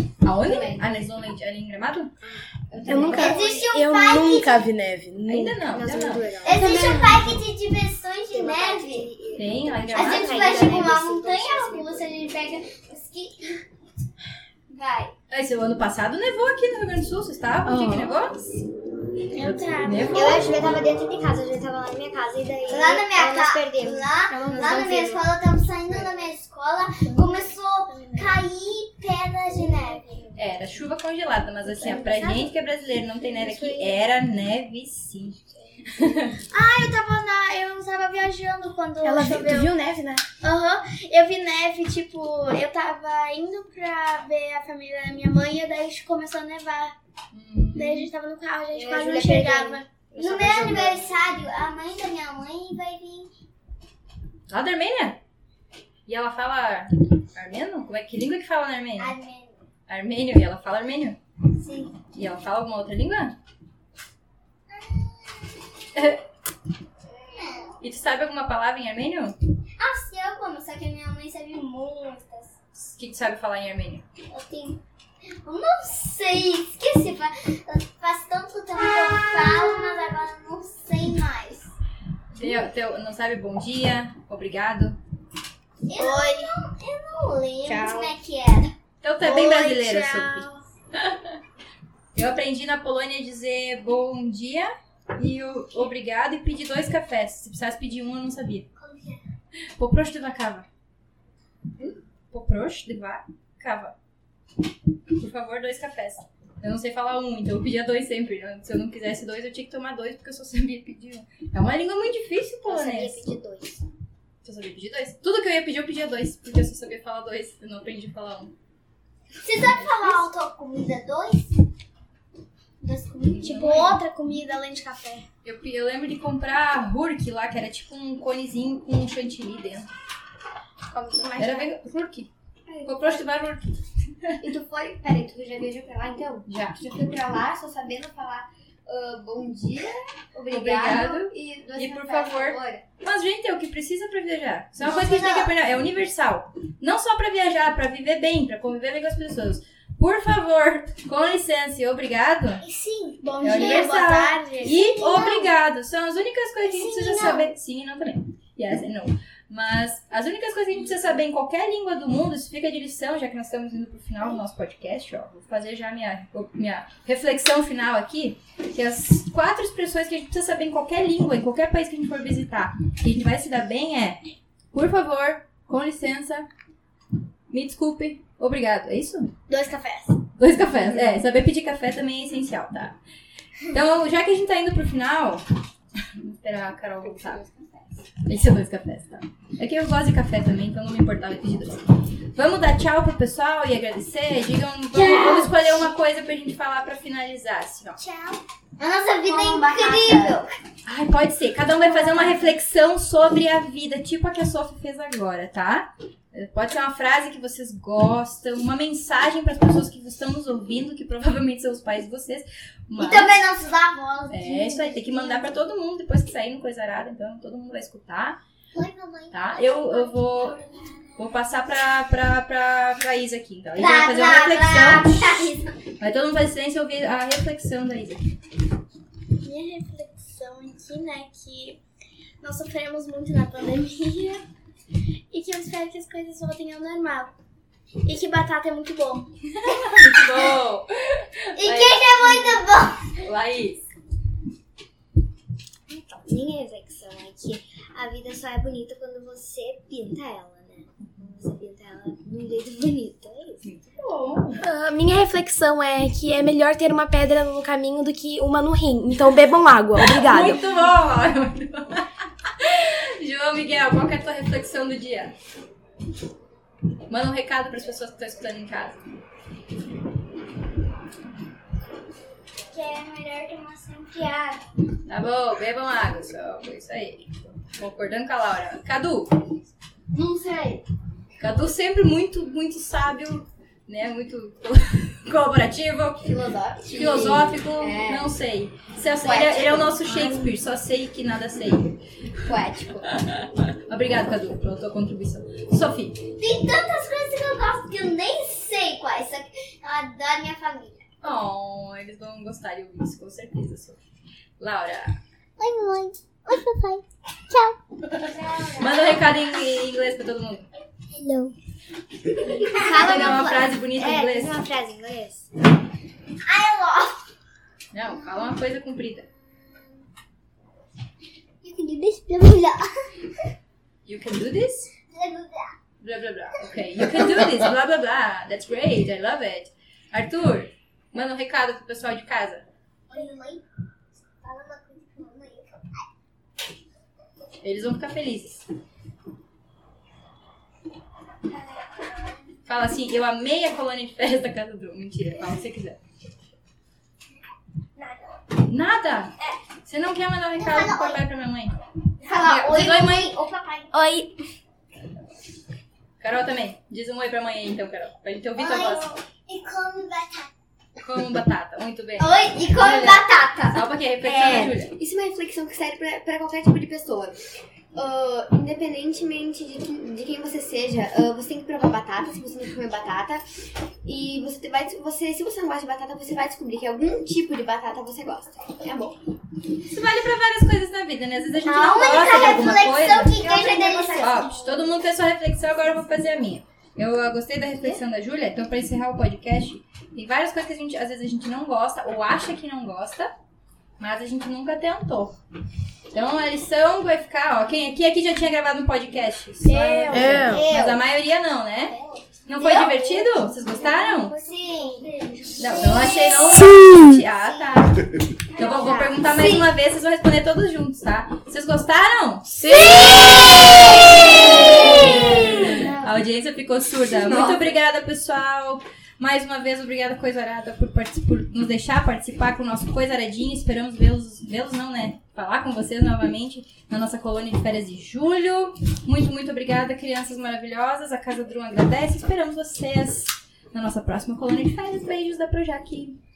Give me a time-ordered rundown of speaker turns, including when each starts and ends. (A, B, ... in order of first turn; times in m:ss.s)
0:00.2-0:02.1 A
0:00.3-0:01.0 B
0:02.7-0:03.7 B
0:02.9-0:05.7 C
0:03.1-0:04.7 D
0:05.3-0:06.3 A
0:05.8-0:07.2 B
0:05.8-0:07.0 E
0:06.4-0:09.1 D
0:06.6-0:07.1 C
0:08.3-0:09.7 B
0:09.3-0:12.1 E
0:09.4-0:10.5 A
0:09.9-0:13.6 D
0:14.7-0:15.1 D
0:15.3-0:18.5 A
0:17.7-0:18.2 C
0:19.3-0:20.8 F
0:19.4-0:20.5 A
0:20.1-0:24.2 E
0:22.7-0:30.4 D
0:24.3-0:25.2 C
0:24.5-0:25.0 B
0:27.0-0:28.5 F
0:30.4-0:36.4 A
0:36.3-0:39.7 F
0:39.0-0:40.2 C
0:40.4-0:46.9 F
0:47.3-0:48.1 A
0:47.8-0:49.9 F
0:49.4-0:49.7 E
0:50.1-0:51.1 A
0:50.2-0:53.3 D
0:54.5-0:55.2 A
0:56.1-0:59.2 A
0:59.0-0:59.6 D
0:59.9-1:01.2 A
1:01.5-1:02.0 D
1:02.1-1:03.4 A
1:04.7-1:06.1 D
1:06.0-1:06.2 A
1:07.0-1:07.8 D
1:07.8-1:09.4 A
1:09.8-1:12.6 D
1:12.8-1:14.0 A
1:14.3-1:14.8 D
1:15.4-1:21.7 D
1:19.3-1:20.1 F
1:22.3-1:25.0 A
1:25.9-1:28.7 D
1:26.0-1:26.5 F
1:27.7-1:28.1 C
1:29.0-1:31.3 A
1:29.2-1:30.6 F
1:32.2-1:38.7 A
1:38.8-1:39.2 D
1:39.8-1:40.7 A
1:42.3-1:44.0 A
1:45.1-1:53.3 A
1:52.7-1:53.8 E
1:54.4-1:58.5 A
1:59.4-2:01.6 D
1:59.7-2:00.3 A
2:02.8-2:03.7 D
2:03.3-2:04.0 A
2:03.4-2:05.3 F
2:05.4-2:09.9 A
2:10.9-2:11.7 B
2:11.4-2:12.3 A
2:12.7-2:13.2 B
2:12.8-2:14.4 A
2:14.4-2:22.8 B
2:16.5-2:16.8 A
2:20.5-2:32.6 A
2:24.8-2:25.5 D
2:32.6-2:33.9 D
2:33.2-2:34.8 F
2:33.4-2:54.2 A
2:34.6-2:35.5 D
2:36.6-2:37.5 D
2:54.7-2:56.5 A
2:57.5-2:59.3 A
2:59.5-3:00.2 F
3:00.4-3:03.0 A
3:03.7-3:05.4 A
3:06.0-3:07.4 A
3:07.0-3:08.0 B
3:08.2-3:18.0 A
3:15.0-3:15.8 D
3:18.0-3:20.5 D
3:19.2-3:20.4 B
3:20.8-3:33.4 A
3:33.0-3:35.5 D
3:34.3-3:38.4 A
3:38.7-3:41.4 D
3:39.3-3:40.6 A
3:41.2-3:45.5 A
3:43.8-3:45.8 D
3:46.0-3:48.2 A
3:49.4-3:51.8 F
3:52.4-3:54.4 F
3:55.3-3:57.3 F
3:58.0-3:59.3 F
3:59.6-4:02.6 A
4:01.6-4:03.2 D
4:03.2-4:03.8 A
4:05.9-4:13.6 E
4:13.6-4:14.6 A
4:14.6-4:20.7 C
4:20.0-4:25.3 A
4:27.1-4:29.0 A
4:32.7-4:34.6 D
4:35.1-4:39.5 A
4:40.1-4:40.8 B
4:41.4-4:46.3 A
4:46.2-4:48.4 B
4:46.8-4:52.0 A
4:49.2-4:50.5 B
4:52.4-4:53.2 B
4:53.1-4:56.3 A
4:56.3-5:01.0 D
5:01.2-5:04.0 A
5:04.6-5:05.2 A
5:05.6-5:09.6 D
5:08.1-5:10.7 A
5:11.1-5:11.6 D
5:12.5-5:13.7 D
5:12.7-5:15.5 E
5:12.8-5:13.1 B
5:12.8-5:14.6 A
5:16.4-5:17.3 D
5:17.9-5:19.3 A
5:18.1-5:18.5 D
5:19.3-5:20.0 D
5:21.6-5:23.1 D
5:24.0-5:24.9 A
5:25.1-5:25.8 D
5:26.0-5:32.7 A
5:33.1-5:33.6 D
5:34.4-5:36.0 D
5:37.6-5:38.6 A
5:41.5-5:42.4 D
5:42.7-5:46.0 A
5:48.0-5:48.4 D
5:48.6-5:51.8 A
5:50.6-5:51.2 D
5:52.2-5:54.0 D
5:52.4-5:53.3 A
5:53.9-5:54.4 F
5:56.2-5:59.1 A
5:58.6-6:00.5 D
6:01.0-6:05.0 A
6:02.2-6:04.7 D
6:04.3-6:07.4 B
6:08.0-6:13.4 B
6:14.0-6:19.2 B
6:19.9-6:23.4 A
6:21.6-6:24.6 D
6:23.2-6:24.8 B
6:24.2-6:33.3 A
6:34.0-6:35.4 A
6:36.1-6:42.0 A
6:39.6-6:40.6 F
6:40.1-6:40.7 C
6:40.5-6:41.0 D
6:41.9-6:43.2 D
6:42.5-6:44.4 A
6:43.8-6:46.5 D
6:44.7-6:45.0 F
6:45.6-7:16.2 A
6:48.6-6:48.9 D
6:49.2-6:49.7 B
6:52.6-6:53.2 C
6:54.6-6:55.9 B
6:54.7-6:56.1 D
6:57.1-6:57.8 B